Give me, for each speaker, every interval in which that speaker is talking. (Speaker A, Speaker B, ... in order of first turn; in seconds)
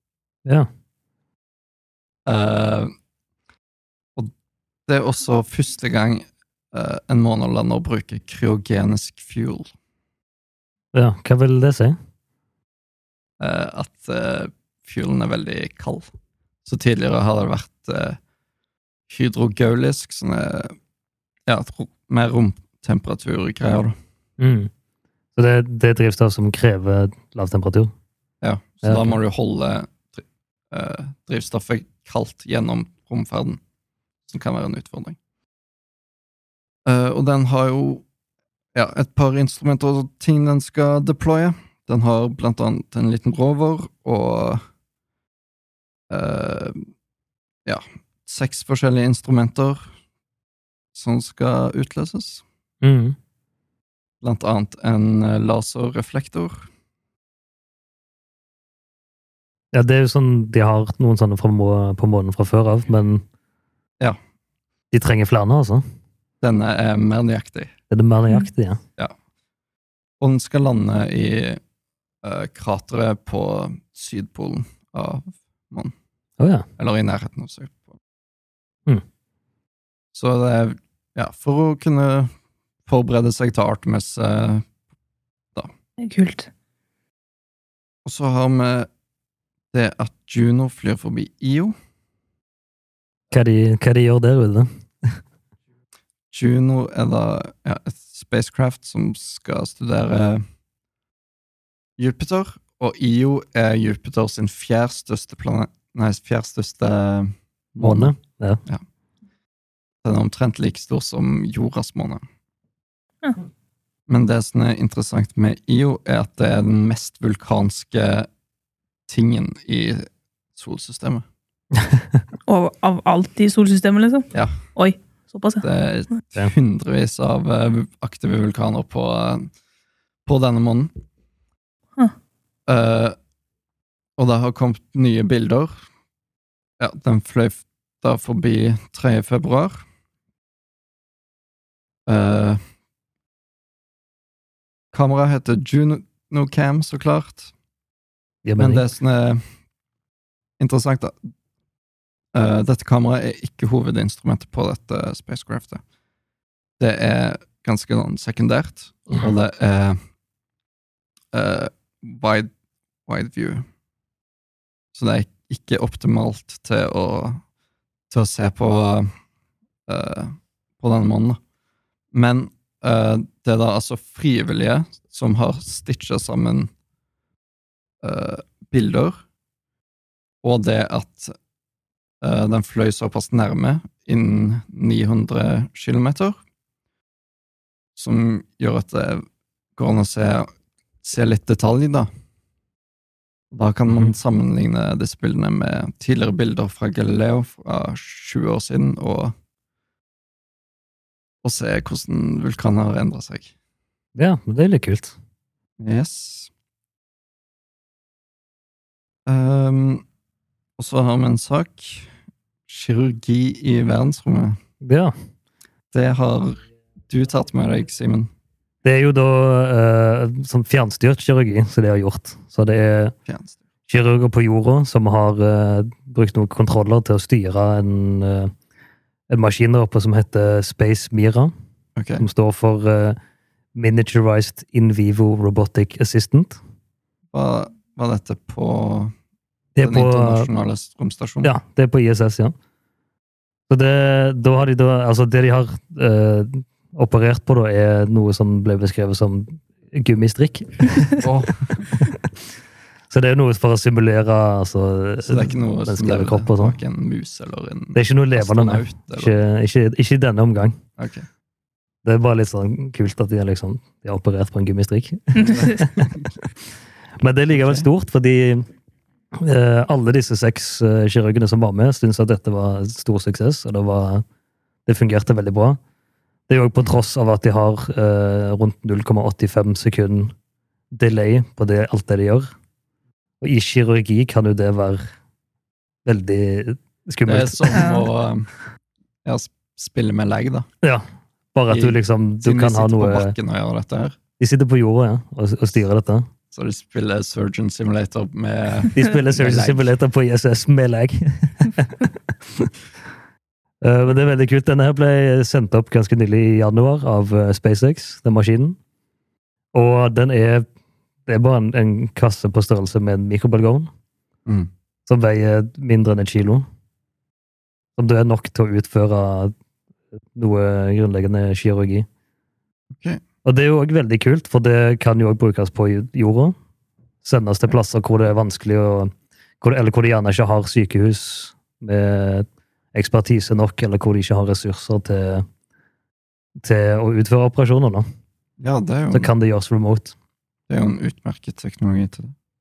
Speaker A: 2.2-2.9, 4.9-9.7, 13.4-16.1, 16.6-18.2, 19.1-20.7, 21.5-23.9, 28.4-33.6, 34.3-35.2, 36.8-38.0, 38.7-44.6, 46.1-46.9, 47.6-49.9, 50.9-52.4, 54.2-56.7, 66.4-67.7, 70.2-71.6, 72.2-75.9, 76.8-77.9, 80.1-82.3, 82.8-84.7, 88.0-88.9, 89.7-91.7, 96.3-100.4, 102.0-108.2, 110.0-112.2, 114.1-118.3, 119.1-121.2, 124.3-124.6, 125.6-129.5, 130.2-130.9, 132.7-133.1, 134.2-135.8, 136.8-139.8, 142.1-142.6, 144.9-147.5, 148.6-149.4, 150.6-151.1, 152.3-155.8, 156.8-160.0, 161.3-162.5, 163.1-163.6, 164.9-167.4, 168.1-169.1, 169.9-171.4, 172.1-176.7, 178.0-179.2, 180.4-181.3, 182.2-186.4, 187.9-189.2, 189.8-190.5, 191.0-192.1, 193.5-199.3, 201.4-203.5, 205.8-206.5, 209.3-210.0, 210.8-212.1, 212.7-214.6, 215.9-218.3, 223.3-223.6, 231.9-232.3, 237.3-239.1, 239.8-241.5, 251.2-251.9, 255.2-259.3, 261.0-261.3, 267.5-267.9, 287.2-288.5, 289.2-290.7, 291.7-294.2, 296.5-299.9, 322.9-323.2, 338.6-339.3, 340.7-342.3
Speaker B: 10.9-11.9, 24.4-24.7, 25.3-27.9, 28.8-29.2, 52.8-53.1, 59.7-63.2, 64.9-65.8, 67.9-68.8, 76.4-76.6, 93.3-95.1, 107.8-108.6, 148.4-148.9, 204.1-205.1, 214.8-215.1, 218.8-223.1, 223.9-228.5, 229.3-231.5, 232.2-233.2, 233.7-236.6, 239.8-240.5, 241.4-242.5, 243.7-251.3, 253.1-256.8, 257.9-260.8, 262.0-266.1, 267.2-268.6, 269.3-274.2, 274.9-275.8, 276.5-280.3, 280.9-282.5, 283.4-285.1, 286.0-287.9, 290.8-293.3, 294.4-296.2, 298.9-302.7, 303.8-308.8, 309.7-310.6, 311.2-313.9, 315.1-316.6, 318.0-319.5, 320.3-322.1, 323.4-326.5, 327.2-335.4, 336.6-338.0, 339.1-340.1
Speaker C: 86.0-86.5, 122.4-125.7, 265.4-265.8, 287.7-288.1